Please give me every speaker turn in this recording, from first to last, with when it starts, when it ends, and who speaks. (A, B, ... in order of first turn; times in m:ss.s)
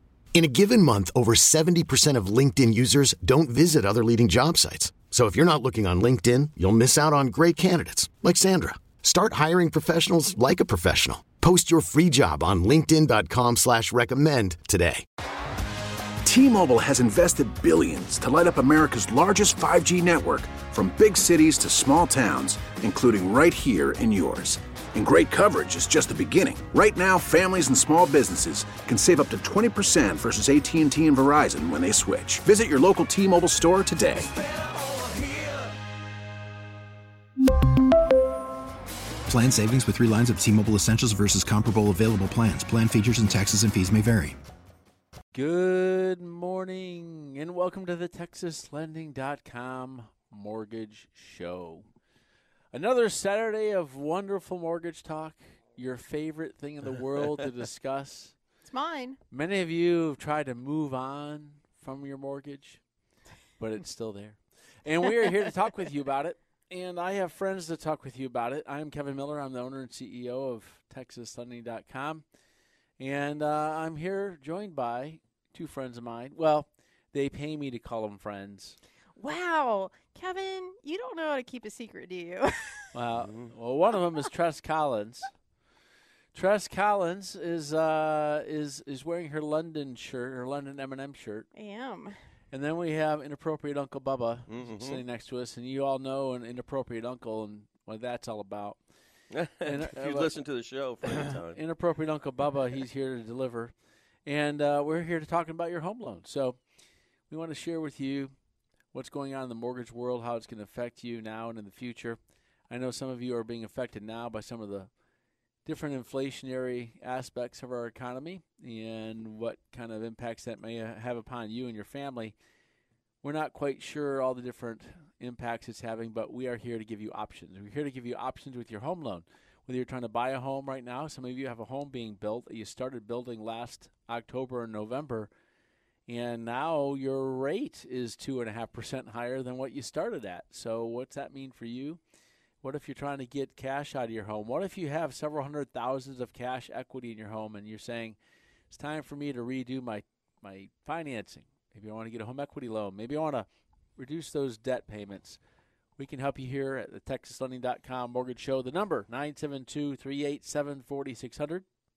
0:00.3-0:15.0 A
0:16.2-0:35.7 B
0:39.3-0:44.4 C
0:45.3-0:51.9 D
0:52.7-0:58.4 D
0:58.6-0:59.2 E
0:59.3-1:02.8 D
1:03.6-1:12.2 D
1:13.0-1:18.8 D
1:19.2-1:22.9 E
1:22.9-1:25.3 D
1:23.2-1:23.5 F
1:26.3-1:31.5 D
1:31.5-1:32.2 E
1:32.5-1:38.8 D
1:34.5-1:35.0 F
1:39.3-1:41.6 F
1:39.6-1:40.3 D
1:41.3-1:43.7 D
1:44.3-1:46.6 D
1:47.3-1:48.3 D
1:48.9-1:52.2 D
1:52.7-1:54.9 D
1:55.6-2:02.4 D
2:03.2-2:15.3 D
2:16.1-2:22.0 D
2:22.6-2:28.2 D
2:28.7-2:35.4 D
2:36.0-2:41.6 D